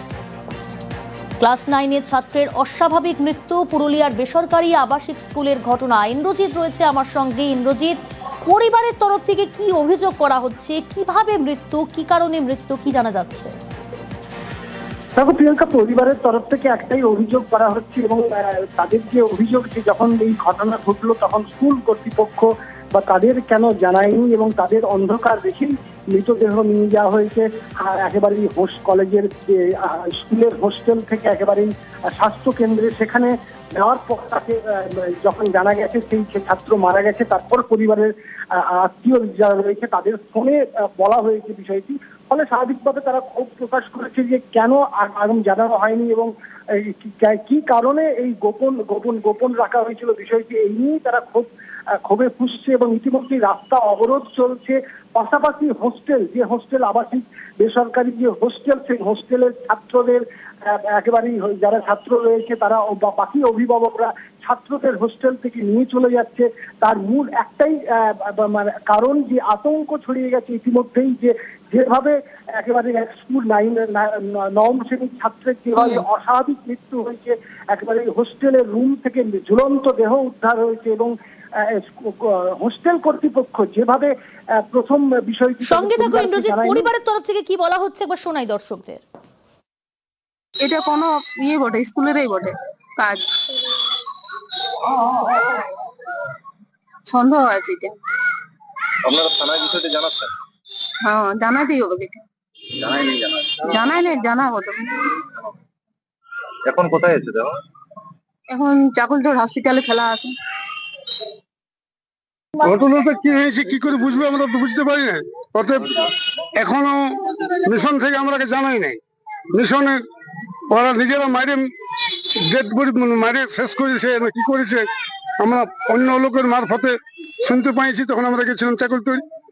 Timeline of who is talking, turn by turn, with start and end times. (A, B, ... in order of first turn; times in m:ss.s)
0:01.4-0:13.5 A
0:15.2-0:51.5 B
0:52.0-1:26.9 B
1:25.6-1:29.0 A
1:30.6-1:33.2 C
1:37.1-1:38.0 C
1:39.0-1:40.3 D
1:41.0-1:42.2 C
1:42.8-1:43.6 D
1:43.7-1:45.1 C
1:46.6-1:47.6 D
1:48.5-1:50.3 C
1:52.6-1:55.9 E
1:56.6-1:57.0 E
1:57.6-1:59.0 E
1:59.5-2:00.0 E
2:00.7-2:01.7 E
2:02.5-2:09.2 E